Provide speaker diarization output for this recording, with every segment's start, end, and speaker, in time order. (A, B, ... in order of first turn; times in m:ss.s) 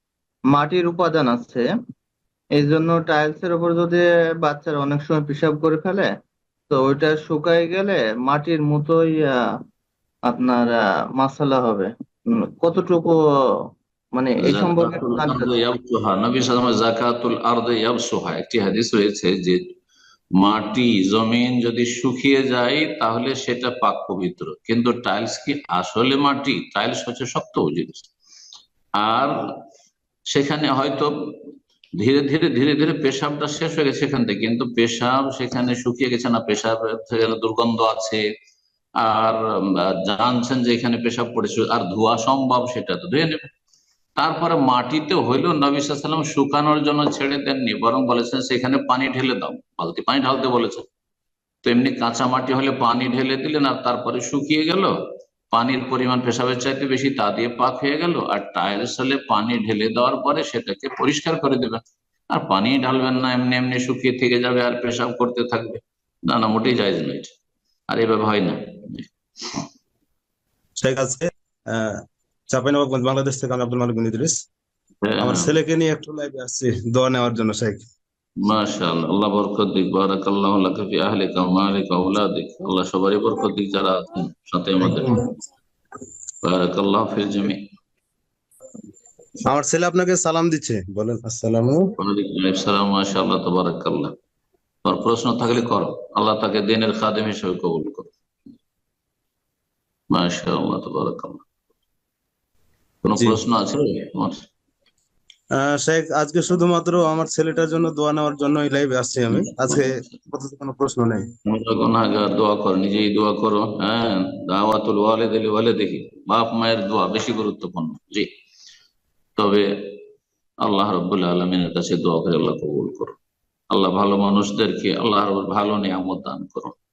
0:00.5-0:01.6 A
0:02.6-0:06.1 A
0:06.7-0:09.4 A
0:10.3-0:13.2 A
0:14.2-0:15.6 A
0:14.4-0:19.6 B
0:20.4-0:28.1 B
0:29.0-0:29.5 B
0:30.3-0:31.4 B
0:32.0-0:38.2 B
0:39.0-0:39.4 B
0:40.1-0:43.4 B
0:44.2-0:50.9 B
0:51.6-0:54.9 B
0:55.5-1:07.3 B
1:07.9-1:09.6 B
1:10.8-1:14.4 C
1:15.0-1:15.5 B
1:15.2-1:17.9 C
1:18.4-1:25.1 B
1:24.8-1:25.3 C
1:26.4-1:27.6 B
1:29.4-1:31.8 C
1:32.0-1:34.1 B
1:34.8-1:38.1 B
1:40.1-1:41.4 B
1:43.0-1:44.5 B
1:45.6-1:51.2 C
1:49.3-1:50.2 B
1:51.5-1:58.3 B
1:59.4-2:00.0 B
2:00.6-2:03.2 B
2:03.7-2:06.8 B